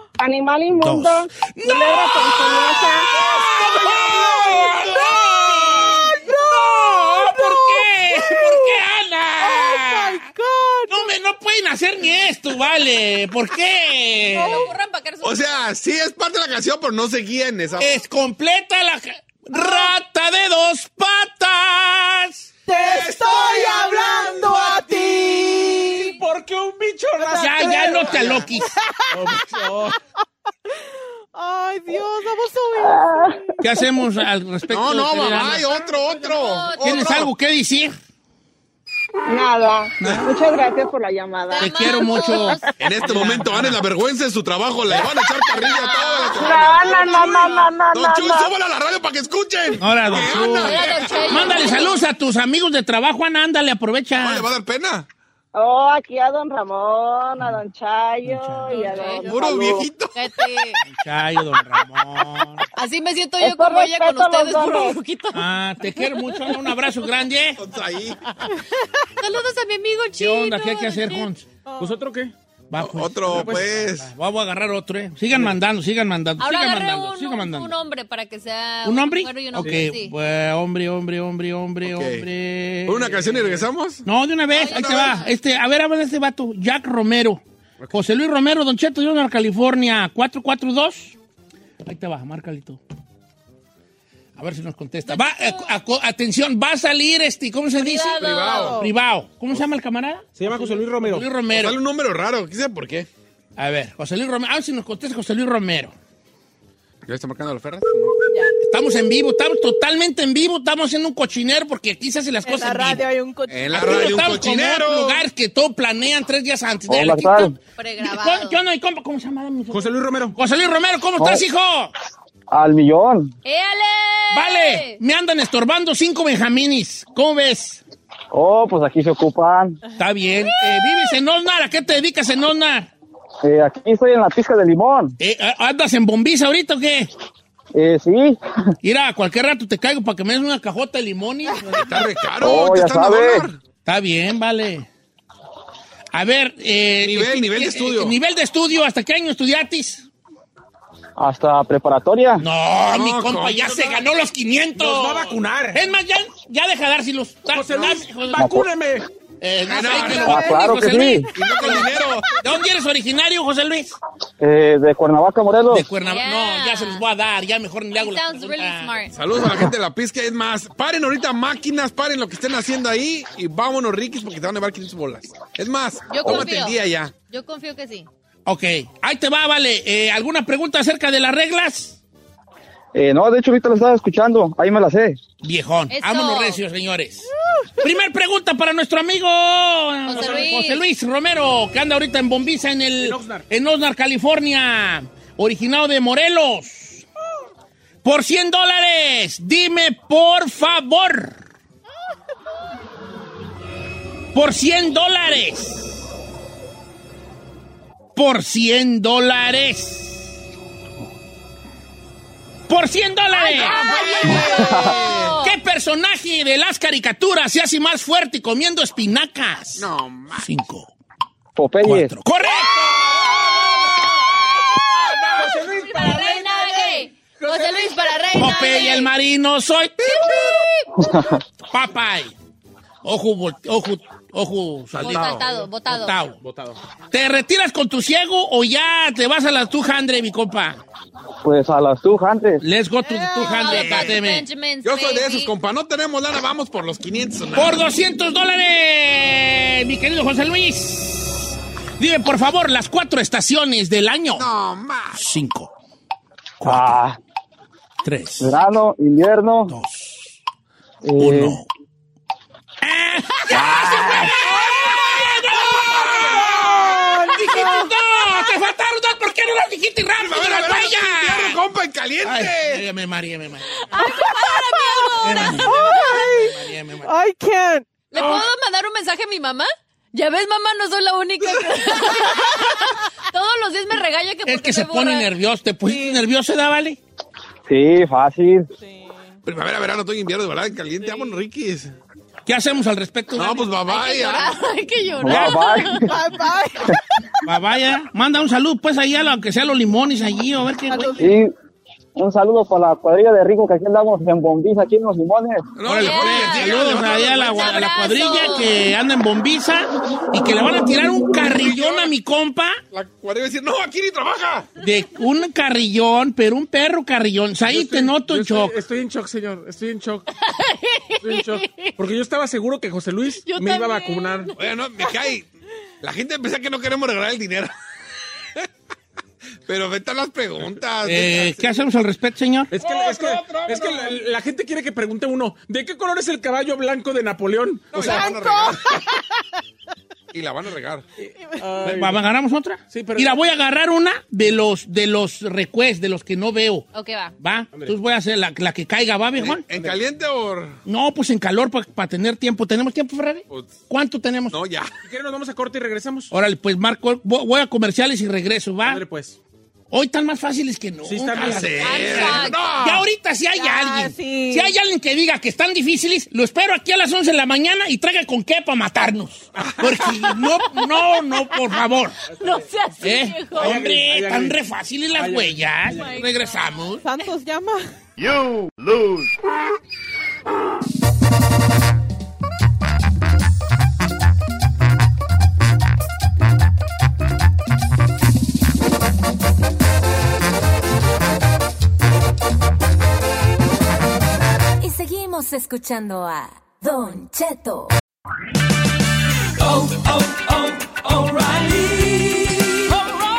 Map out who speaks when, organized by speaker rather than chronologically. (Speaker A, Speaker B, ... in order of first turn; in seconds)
Speaker A: 0.2-3.2, 32.8-33.4, 39.3-42.7, 46.4-48.5, 55.5-59.9, 63.4-65.0
Speaker B: 0.8-10.2, 10.9-14.6, 17.8-22.5, 27.4-28.8, 33.6-35.7, 36.8-37.9, 40.0-40.3, 41.6-43.8, 49.8-54.5, 58.2-58.7, 60.8-62.6, 65.3-67.6, 70.2-71.5, 72.7-77.7, 78.8-91.2, 91.8-92.8, 94.4-100.3, 101.0-101.8, 103.6-105.9, 108.6-113.1, 113.7-121.9, 124.3-127.8, 130.0-132.9, 135.2-137.1, 138.8-142.0, 143.8-144.9, 146.1-150.1, 152.4-158.5, 159.4-164.0, 165.7-168.9, 178.4-182.0, 185.4-197.0, 198.0-201.4, 204.3-205.8, 208.1-210.3, 212.7-214.5, 215.4-220.9, 221.8-222.9, 228.3-230.3, 231.7-232.3, 233.0-236.4, 237.1-240.8, 242.6-244.4, 247.5-254.5, 255.1-255.7, 256.6-257.0, 258.0-258.5, 259.7-260.4, 261.2-261.7, 262.8-271.6, 272.2-273.9, 275.2-277.1, 284.4-287.0, 292.4-293.7, 295.3-295.6, 297.4-301.2, 305.8-312.8, 314.8-318.7, 331.0-332.7, 341.8-346.8, 347.4-349.6, 350.9-354.6, 356.3-359.0, 359.9-372.2, 373.0-377.0
Speaker C: 3.8-8.8, 9.4-11.1, 14.3-14.7, 19.5-19.9, 22.7-26.0, 27.2-28.2, 29.4-29.9, 31.3-33.2, 58.7-59.4, 71.7-72.0, 98.5-98.9, 112.4-114.3, 161.6-162.1, 243.0-243.6, 266.6-267.9, 274.0-277.9, 288.8-289.4, 291.0-291.3, 296.0-297.3, 300.9-301.4, 363.5-364.7, 377.0-377.9
Speaker D: 14.4-15.7, 36.1-37.1, 41.5-42.6, 45.5-46.6, 50.6-52.0, 58.8-59.3, 60.1-60.8, 62.7-65.4, 69.2-71.3, 76.4-80.1, 84.5-85.3, 95.1-95.7, 97.8-98.8, 117.8-118.6, 123.4-125.0, 166.0-167.0, 168.0-169.1, 176.1-178.1, 185.9-186.6, 190.1-190.8, 213.3-215.5, 225.3-229.1, 230.1-230.9, 235.0-236.2, 243.4-245.5, 273.9-276.3, 278.1-285.3, 293.9-296.1, 305.9-308.7, 320.4-322.0, 323.4-324.5, 338.0-338.8, 346.9-347.3, 361.8-362.6, 372.4-373.8, 375.9-376.6
Speaker E: 15.2-17.9, 22.8-24.6, 25.2-25.8, 34.7-37.3, 42.8-51.5, 54.1-55.0, 59.2-60.1, 67.6-68.2, 72.8-74.1, 81.8-82.2, 82.9-84.0, 84.5-85.2, 98.2-98.8, 101.5-103.1, 107.0-108.2, 113.5-115.2, 141.7-143.6, 147.0-148.2, 152.9-154.0, 159.7-160.5, 161.3-162.3, 169.1-177.1, 213.7-215.3, 219.8-220.5, 222.8-225.6, 230.0-230.6, 234.9-235.4, 243.6-244.2, 244.8-247.8, 254.3-255.2, 264.6-267.0, 270.2-272.8, 289.4-291.9, 293.4-294.5, 305.8-307.9, 311.4-312.1, 312.9-314.7, 324.5-325.5, 326.0-327.7, 329.6-331.6, 332.7-334.2, 337.9-339.0, 340.3-341.0, 349.4-350.8, 354.5-354.9, 361.4-363.1, 369.6-370.0
Speaker F: 22.8-28.4, 29.1-29.9, 71.8-72.3, 73.3-73.7, 79.5-79.9, 83.1-83.6, 100.3-101.3, 119.7-120.3, 154.8-155.8, 157.5-159.1, 190.1-190.5, 193.0-193.4, 225.3-228.0, 236.4-236.8, 317.6-320.3, 321.2-324.5, 332.7-338.2, 341.2-342.3, 342.9-343.5, 349.7-350.0, 355.0-356.3, 358.8-359.4, 361.1-361.8, 372.4-372.7, 373.5-374.6, 375.1-376.2
Speaker G: 116.9-117.5, 122.5-123.3, 128.3-129.8, 133.4-135.2, 137.7-138.4, 142.4-143.4, 151.2-152.4, 158.4-158.7, 160.2-161.3, 164.4-165.8, 182.9-185.2, 214.3-215.0, 221.6-222.1, 231.0-231.4, 241.4-242.6, 256.6-257.2, 258.4-259.7, 261.0-261.6, 263.5-264.4, 287.7-288.7, 295.2-296.1, 301.2-301.5, 302.2-305.6
Speaker H: 394.8-397.9, 399.8-400.1, 400.9-402.1